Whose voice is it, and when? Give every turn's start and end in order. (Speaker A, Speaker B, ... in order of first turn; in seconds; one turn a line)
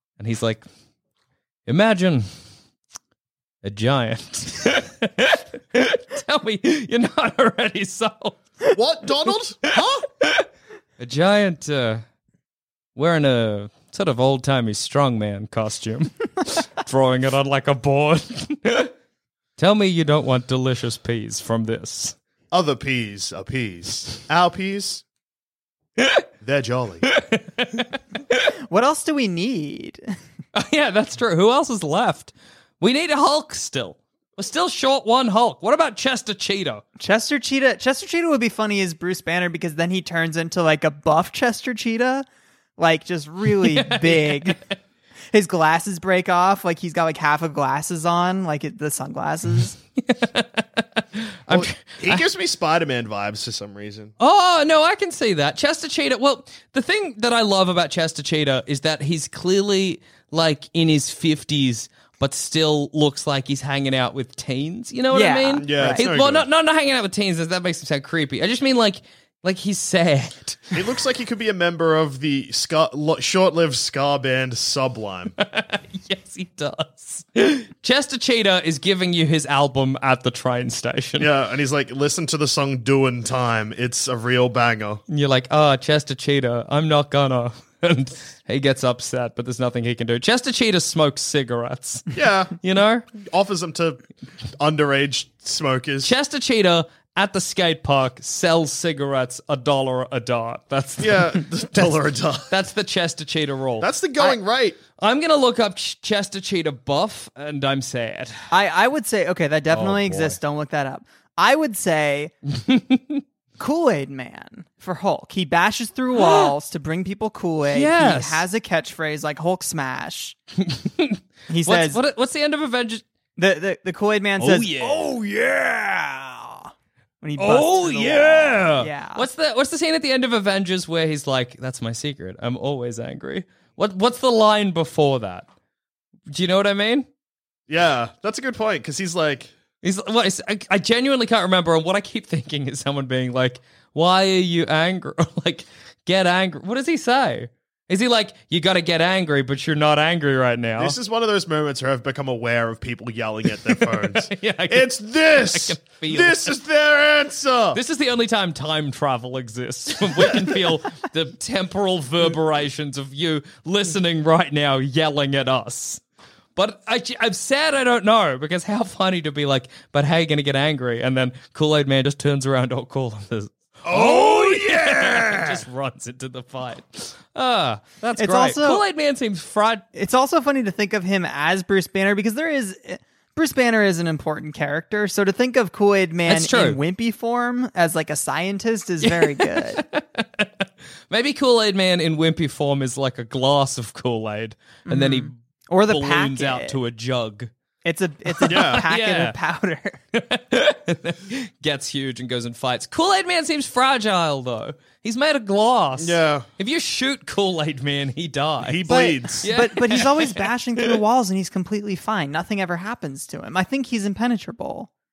Speaker A: 0.2-0.6
Speaker A: 1.7-2.2
Speaker A: 3.6-8.6
Speaker B: 8.7-10.1
Speaker A: 9.7-10.4
Speaker A: 11.0-12.0
Speaker A: 12.9-18.9
Speaker A: 19.6-22.1
Speaker B: 22.5-25.0
Speaker A: 26.0-26.2
Speaker B: 26.4-27.1
Speaker A: 27.1-28.4
Speaker C: 28.7-30.0
Speaker A: 30.5-36.8
Speaker C: 37.0-42.2
Speaker C: 42.8-44.6
Speaker A: 43.6-44.5
Speaker C: 45.3-49.8
Speaker A: 50.0-52.2
Speaker B: 51.5-54.1
Speaker A: 54.2-70.8
Speaker C: 65.1-66.1
Speaker B: 65.6-66.5
Speaker B: 70.7-75.3
Speaker A: 75.4-81.3
Speaker B: 81.2-85.0
Speaker A: 85.1-93.1
Speaker B: 92.1-92.5
Speaker B: 93.1-94.0
Speaker B: 94.6-96.1
Speaker A: 96.0-101.9
Speaker B: 101.0-102.5
Speaker A: 102.5-103.9
Speaker B: 103.8-104.8
Speaker A: 105.0-108.3
Speaker C: 108.5-112.3
Speaker A: 109.7-110.4
Speaker A: 112.6-113.2
Speaker C: 113.6-120.4
Speaker A: 116.1-116.5
Speaker A: 117.7-118.4
Speaker A: 120.6-123.0
Speaker C: 121.5-122.0
Speaker C: 123.4-126.7
Speaker A: 124.4-125.2
Speaker C: 127.2-129.3
Speaker A: 127.4-135.5
Speaker A: 136.3-137.1
Speaker B: 137.7-139.5
Speaker A: 139.8-151.0
Speaker B: 150.8-157.8
Speaker A: 153.7-156.6
Speaker A: 157.7-166.0
Speaker A: 166.6-179.8
Speaker B: 173.8-175.6
Speaker C: 178.2-178.8
Speaker C: 179.9-189.8
Speaker A: 186.2-186.8
Speaker A: 189.0-195.3
Speaker C: 194.9-196.8
Speaker A: 195.9-197.5
Speaker C: 197.8-200.0
Speaker A: 198.3-199.3
Speaker B: 198.4-198.8
Speaker A: 200.1-208.8
Speaker B: 206.0-206.4
Speaker B: 208.6-209.4
Speaker C: 208.9-214.9
Speaker A: 209.4-210.9